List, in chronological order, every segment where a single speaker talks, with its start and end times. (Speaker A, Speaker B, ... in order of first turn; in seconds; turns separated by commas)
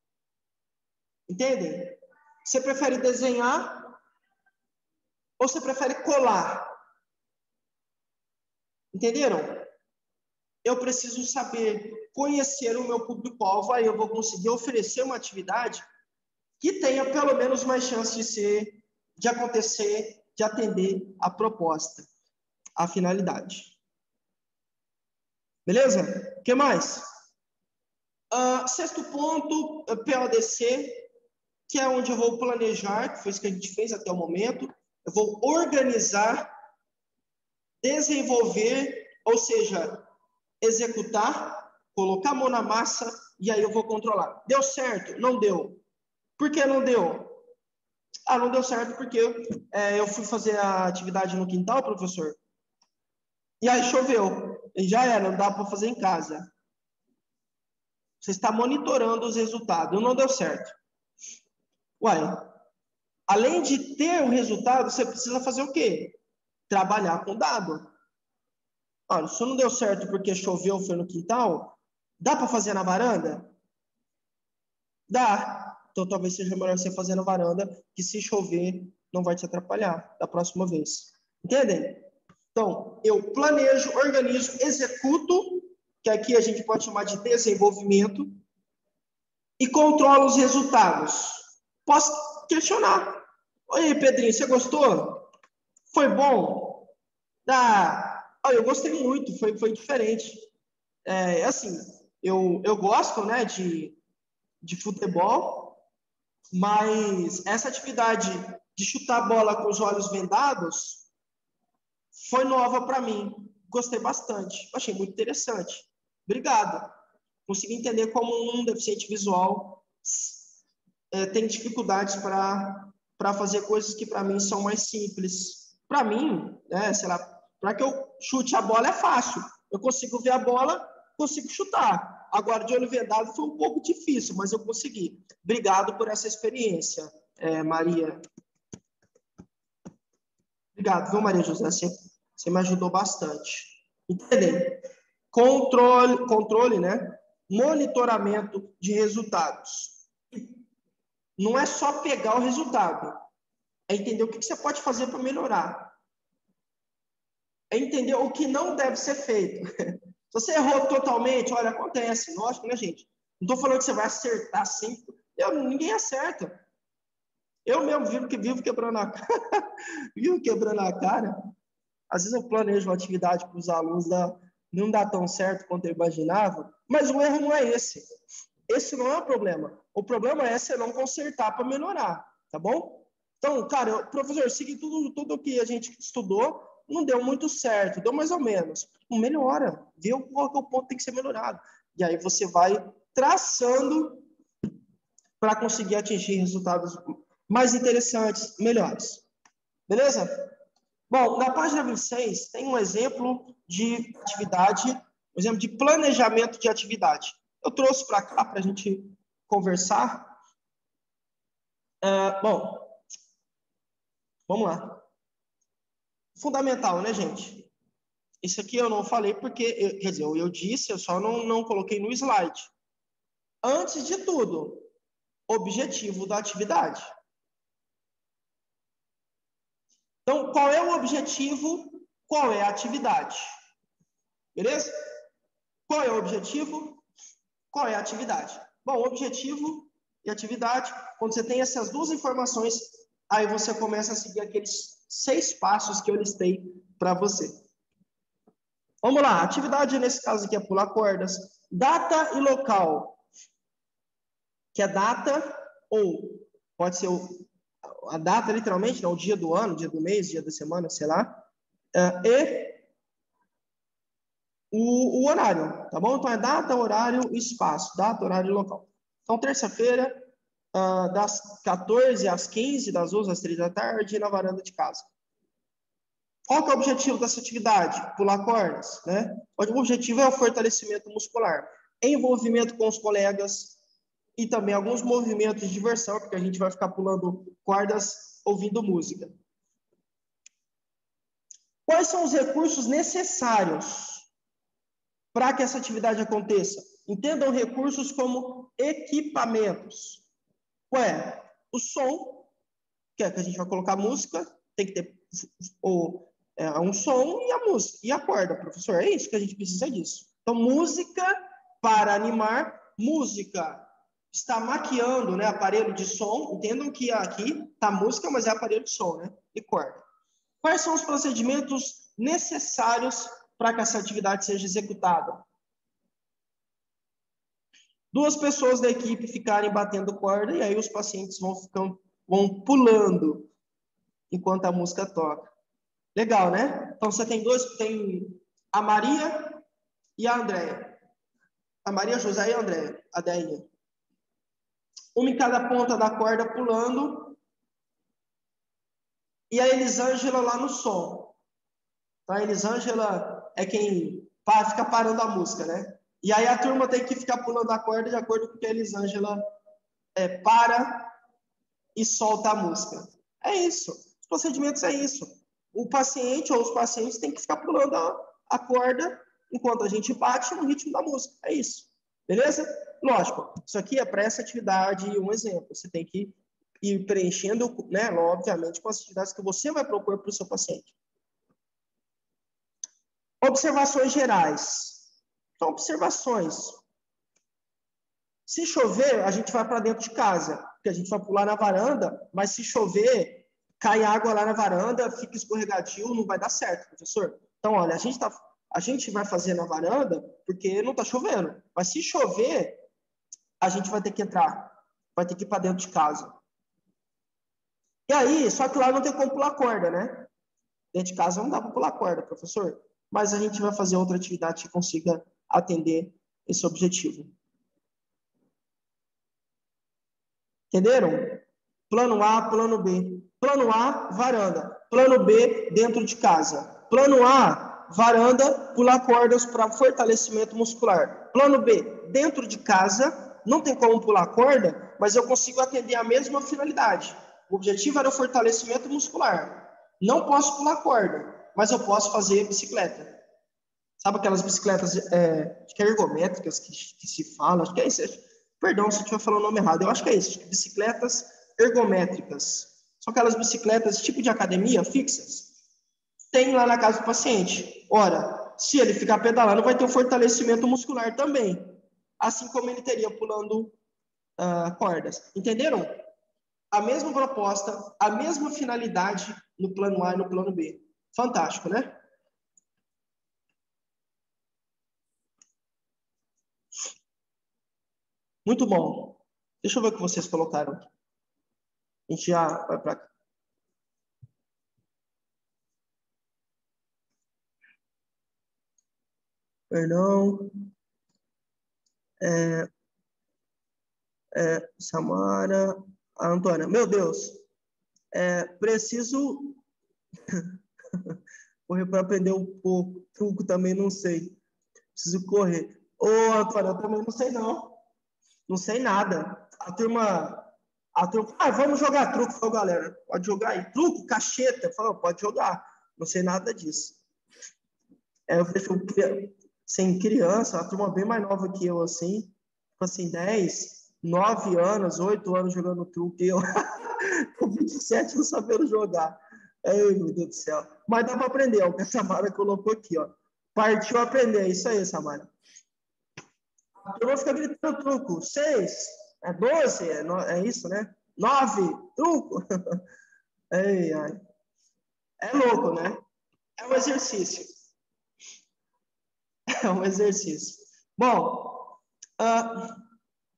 Speaker A: 1.3-4.0, Speaker A: 5.4-6.7, Speaker A: 8.9-9.7, Speaker A: 10.6-15.8, Speaker A: 16.6-22.1, Speaker A: 22.8-23.8, Speaker A: 25.7-27.1, Speaker A: 28.3-31.1, Speaker A: 31.7-36.5, Speaker A: 37.8-40.1, Speaker A: 40.6-45.8, Speaker A: 46.4-47.4, Speaker A: 48.3-52.4, Speaker A: 53.6-56.5, Speaker A: 58.2-60.8, Speaker A: 62.0-62.5, Speaker A: 63.3-66.2, Speaker A: 66.7-67.9, Speaker A: 69.1-73.5, Speaker A: 75.1-88.3, Speaker A: 89.6-95.2, Speaker A: 95.9-96.9, Speaker A: 97.5-100.4, Speaker A: 101.0-104.0, Speaker A: 104.6-105.8, Speaker A: 106.5-111.1, Speaker A: 112.1-116.9, Speaker A: 117.5-120.5, Speaker A: 121.1-138.2, Speaker A: 140.8-150.6, Speaker A: 151.4-153.1, Speaker A: 153.9-155.9, Speaker A: 157.7-166.6, Speaker A: 167.7-171.4, Speaker A: 172.1-178.1, Speaker A: 178.7-194.2, Speaker A: 195.4-199.2, Speaker A: 199.9-200.3, Speaker A: 201.1-210.3, Speaker A: 212.0-213.0, Speaker A: 214.5-215.0, Speaker A: 216.3-217.7, Speaker A: 218.4-222.7, Speaker A: 223.6-224.9, Speaker A: 225.5-227.1, Speaker A: 230.3-233.5, Speaker A: 234.6-234.9, Speaker A: 235.9-237.0, Speaker A: 237.7-247.6, Speaker A: 249.0-253.2, Speaker A: 254.7-257.5, Speaker A: 258.1-262.8, Speaker A: 264.7-275.1, Speaker A: 276.5-283.8, Speaker A: 284.4-289.3, Speaker A: 291.9-294.3, Speaker A: 295.3-300.2, Speaker A: 300.9-302.5, Speaker A: 303.2-320.0, Speaker A: 320.6-325.4, Speaker A: 328.1-333.5, Speaker A: 334.3-335.5, Speaker A: 336.1-339.6, Speaker A: 340.2-341.0, Speaker A: 341.9-343.7, Speaker A: 345.1-347.4, Speaker A: 349.5-351.4, Speaker A: 352.3-359.4, Speaker A: 360.1-361.1, Speaker A: 361.9-380.9, Speaker A: 383.4-385.1, Speaker A: 385.6-386.8, Speaker A: 388.5-402.8, Speaker A: 403.6-406.4, Speaker A: 408.1-410.3, Speaker A: 410.9-417.3, Speaker A: 420.7-443.2, Speaker A: 444.0-455.5, Speaker A: 456.3-463.8, Speaker A: 464.4-465.9, Speaker A: 466.7-472.0, Speaker A: 478.4-480.9, Speaker A: 482.1-483.1, Speaker A: 489.7-490.5, Speaker A: 492.2-492.7, Speaker A: 494.3-497.4, Speaker A: 498.1-499.6, Speaker A: 501.7-504.4, Speaker A: 504.9-507.8, Speaker A: 508.5-517.0, Speaker A: 518.3-535.3, Speaker A: 536.8-542.8, Speaker A: 543.5-544.2, Speaker A: 545.2-546.0, Speaker A: 546.6-547.5, Speaker A: 549.6-552.8